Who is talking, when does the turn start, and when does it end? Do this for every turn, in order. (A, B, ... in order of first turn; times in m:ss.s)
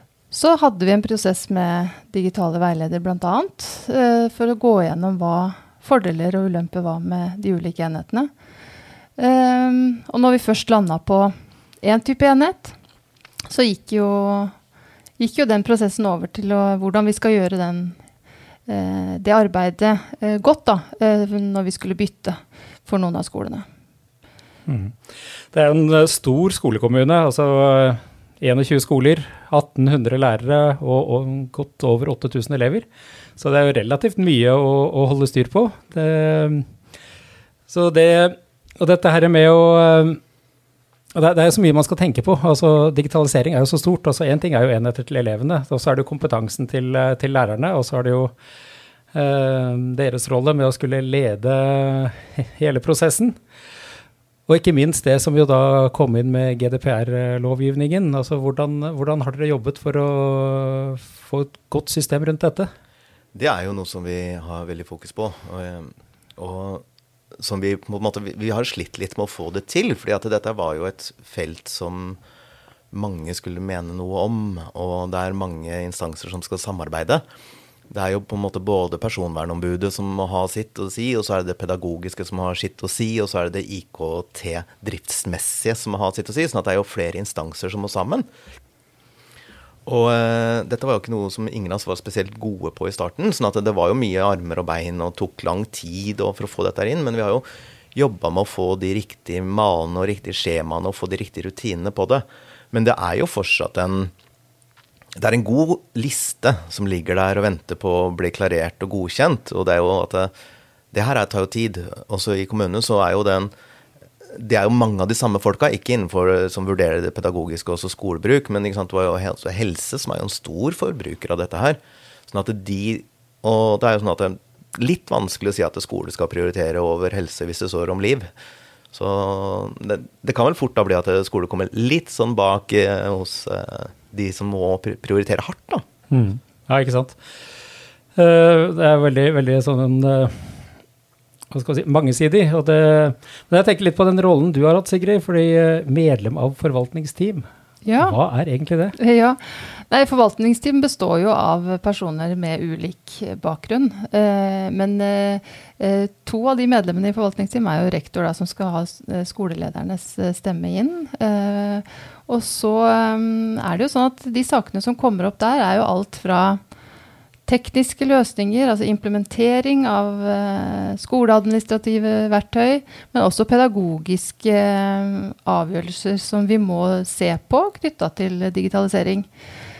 0:00.3-0:08.3 A
0:09.2-0:12.8 A
0:13.5-0:14.5 A
0:15.2-0:18.0 A
0:18.7-0:23.6 A
0:24.7-0:25.0 B
0:25.5-0:32.8 B
0:33.4-0:36.7 B
0:37.7-0:40.2 B
0:41.1-0:48.3 B
0:49.1-0:53.4 B
0:54.5-1:02.7 B
1:03.3-1:06.8 C
1:07.4-1:12.2 C
1:12.9-1:17.2 C
1:17.9-1:28.3 C
1:29.8-1:44.1 C
1:45.2-1:50.3 C
1:50.9-1:53.5 C
1:54.3-2:08.3 C
2:08.9-2:15.8 C
2:16.1-2:17.2 B
2:18.2-2:20.6 B
2:21.5-2:27.5 B
2:27.8-2:28.2 A
2:28.0-2:28.9 B
2:29.0-2:46.6 A
2:47.5-2:59.3 A